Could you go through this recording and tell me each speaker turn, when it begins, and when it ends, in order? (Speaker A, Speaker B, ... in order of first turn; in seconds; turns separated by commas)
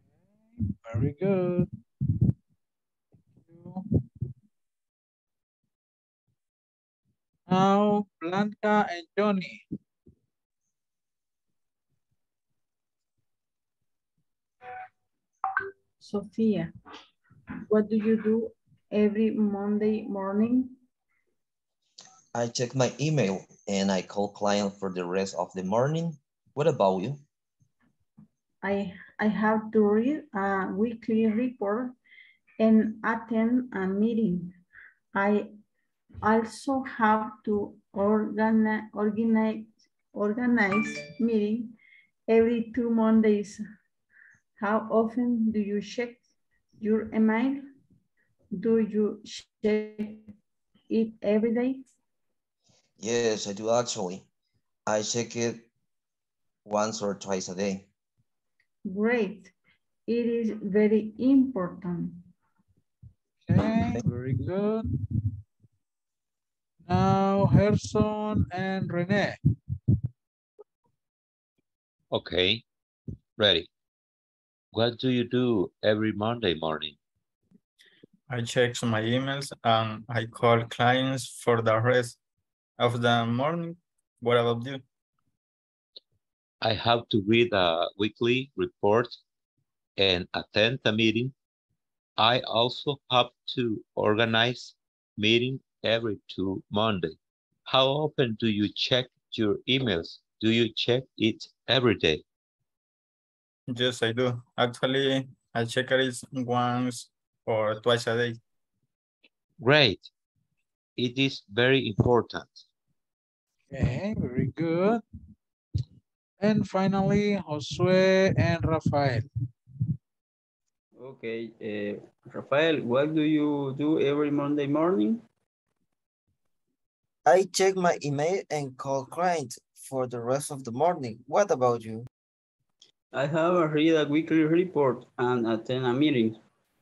Speaker A: 0.6-1.7, Speaker A: 3.4-3.9, Speaker A: 7.5-9.6, Speaker B: 16.0-16.7, Speaker B: 17.7-20.7, Speaker C: 22.3-27.2, Speaker B: 28.6-31.9, Speaker B: 32.6-34.5, Speaker B: 35.1-35.5, Speaker B: 36.2-41.7, Speaker B: 42.3-43.6, Speaker B: 44.6-46.2, Speaker B: 46.8-47.6, Speaker B: 48.6-50.2, Speaker B: 50.9-51.8, Speaker C: 53.0-54.3, Speaker C: 54.9-55.6, Speaker C: 56.6-57.9, Speaker B: 58.9-59.5, Speaker B: 60.1-62.1, Speaker A: 63.4-64.9, Speaker A: 66.8-69.4, Speaker D: 72.1-72.6, Speaker D: 73.4-73.7, Speaker D: 74.7-77.0, Speaker E: 78.3-82.2, Speaker E: 82.8-84.8, Speaker D: 86.6-89.2, Speaker D: 90.0-91.3, Speaker D: 92.2-102.2, Speaker E: 103.7-108.4, Speaker D: 109.6-110.1, Speaker D: 111.0-112.6, Speaker A: 113.7-115.0, Speaker A: 116.4-119.3, Speaker F: 121.0-125.2, Speaker G: 127.2-132.1, Speaker F: 133.1-136.4